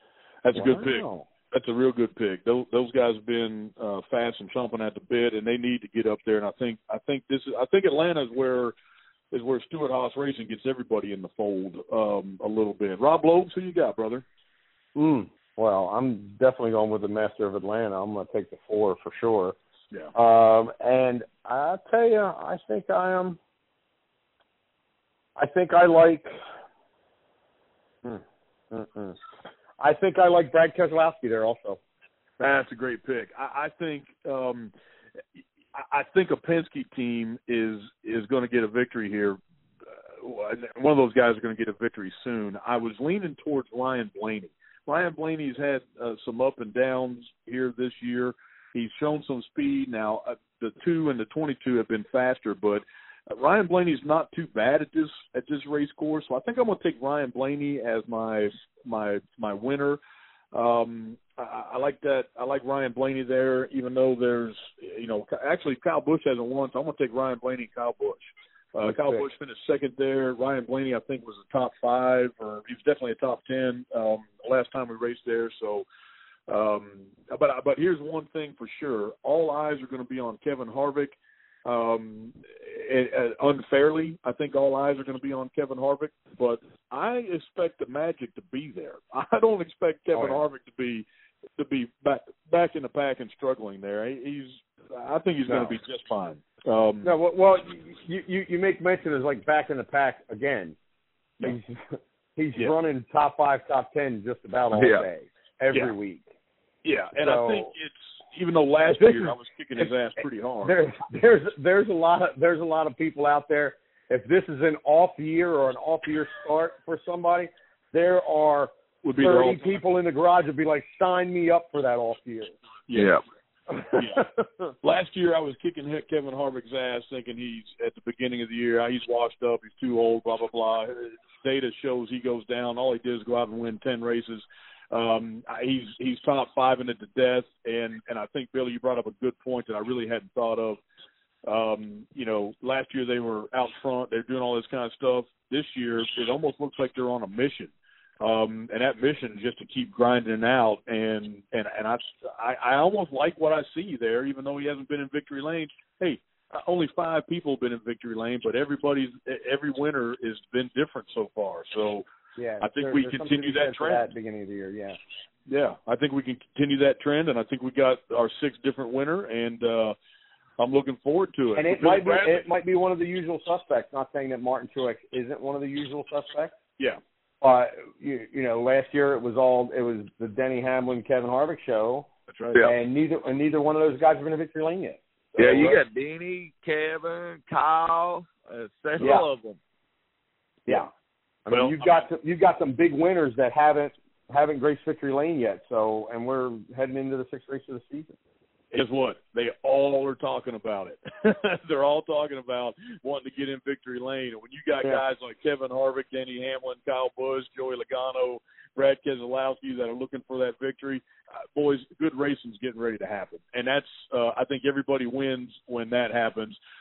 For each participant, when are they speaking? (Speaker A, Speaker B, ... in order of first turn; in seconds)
Speaker A: 0.4-8.7, 9.3-14.2, 32.4-34.7, 35.7-39.4, 39.9-60.0, 60.5-75.8, 76.5-91.0, 91.6-97.1, 106.8-110.8, 119.0-119.6, 122.9-123.2, 123.9-124.2, 124.8-140.8, 141.4-162.0, 162.6-164.1, 165.5-169.9, 170.6-172.4, 182.3-182.6, 185.3-185.8, 191.5-192.1, 198.7-211.0, 211.5-216.6
Speaker B: 0.5-1.3, 14.9-19.6, 20.1-23.4, 25.4-26.3, 28.0-29.2, 29.8-31.8, 90.1-90.4, 95.5-95.8, 97.0-100.8, 101.4-106.3, 107.2-107.7, 108.9-109.3, 110.6-122.5, 123.7-124.6, 162.4-165.0, 171.5-176.6, 177.4-182.1, 182.6-185.0, 189.0-189.2, 191.4-198.2
Speaker C: 104.7-105.0, 122.9-123.2, 185.4-189.6